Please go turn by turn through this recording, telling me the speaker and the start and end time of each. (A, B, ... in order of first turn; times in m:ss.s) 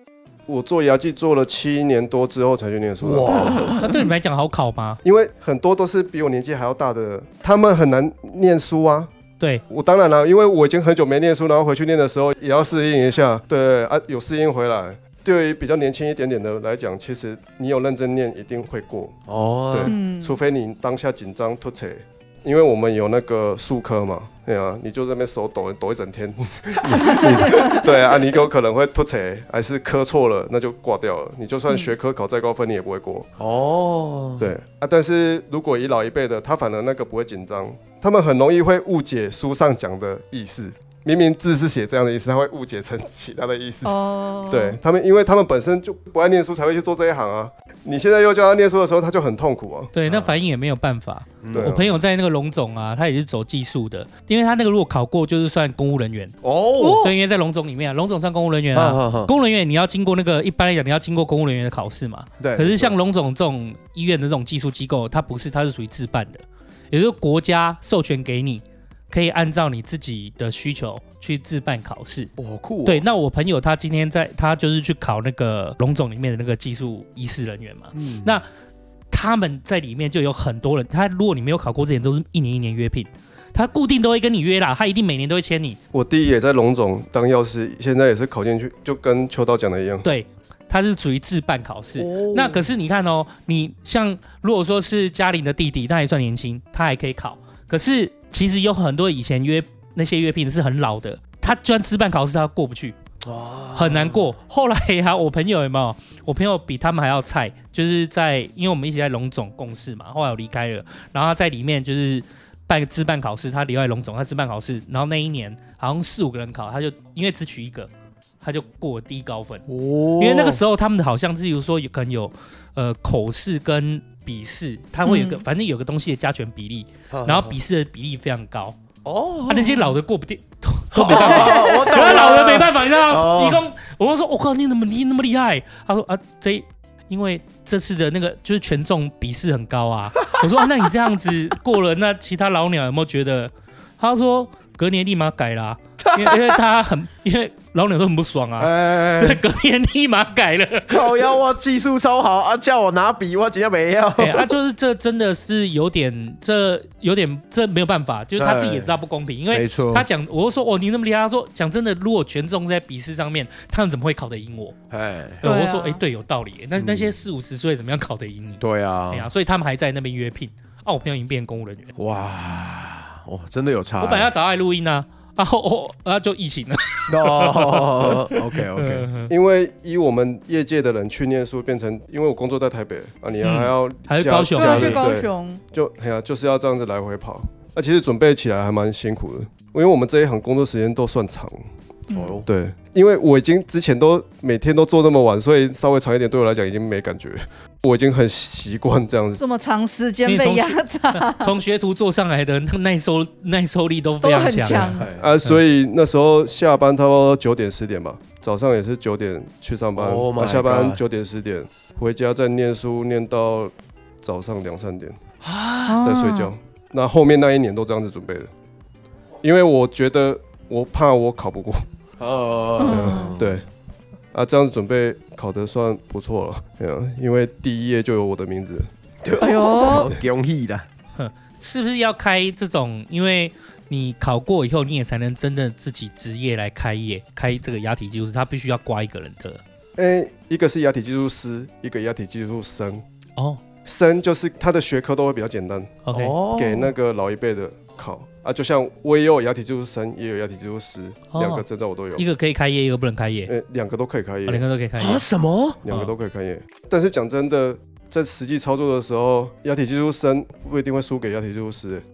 0:00.5-0:03.7 A
0:03.0-0:03.9 B
0:03.7-0:05.0 C
0:05.0-0:09.1 A
0:09.7-0:19.2 A
0:19.3-0:19.9 B
0:19.7-0:33.3 A
0:19.8-0:20.4 D
0:26.9-0:27.6 B
0:27.0-0:27.9 D
0:33.4-0:34.5 B
0:34.4-0:44.0 A
0:43.8-0:44.8 D
0:44.5-0:49.9 A
0:49.9-0:56.4 C
0:50.1-0:50.4 B
0:51.4-0:51.7 B
0:51.5-0:51.9 A
0:56.4-0:57.0 B
0:56.8-0:57.2 D
0:57.0-1:12.3 C
0:58.7-0:59.3 B
1:02.4-1:02.9 B
1:12.4-1:13.0 B
1:12.8-1:18.4 C
1:18.0-1:18.3 B
1:19.1-1:25.8 C
1:25.9-1:30.1 A
1:30.0-1:43.0 C
1:32.0-1:32.7 B
1:43.2-1:44.2 B
1:43.7-1:57.9 C
1:58.4-1:59.7 C
1:59.7-2:00.6 B
2:00.2-2:08.8 C
2:05.0-2:05.4 D
2:07.1-2:07.6 B
2:09.0-2:09.9 B
2:09.5-2:31.3 C
2:10.9-2:13.6 B
2:11.1-2:12.1 D
2:26.2-2:26.4 B
2:28.6-2:29.4 B
2:30.9-2:34.5 B
2:34.2-2:44.8 C
2:38.4-2:38.9 B
2:39.5-2:40.1 B
2:44.9-2:45.4 B
2:45.4-2:51.9 C
2:45.4-2:46.0 D
2:46.8-2:47.1 B
2:48.6-2:49.3 B
2:52.0-2:54.3 B
2:54.0-2:59.3 C
2:57.1-2:59.1 B
2:59.3-3:11.6 A
3:03.4-3:05.1 C
3:04.6-3:05.6 D
3:12.1-3:12.4 D
3:12.1-3:12.5 B
3:12.4-3:19.4 A
3:19.4-3:21.5 D
3:20.3-3:25.6 C
3:24.2-3:25.1 D
3:24.9-3:25.3 B
3:25.2-3:35.2 A
3:30.0-3:31.0 B
3:35.4-3:36.0 B
3:35.9-3:36.5 D
3:36.0-3:38.5 A
3:39.4-3:41.9 A
3:42.2-3:43.6 B
3:42.8-3:43.4 D
3:42.8-3:43.7 A
3:44.3-3:48.9 A
3:49.2-3:50.9 B
3:49.4-3:50.1 D
3:51.2-3:59.6 C
4:00.0-4:03.0 A
4:03.8-4:06.0 A
4:06.0-4:06.4 C
4:06.1-4:06.9 B
4:06.5-4:12.2 A
4:11.3-4:11.6 C
4:12.2-4:13.5 C
4:13.5-4:14.6 A
4:14.5-4:15.2 C
4:15.0-4:15.8 B
4:15.8-4:22.0 A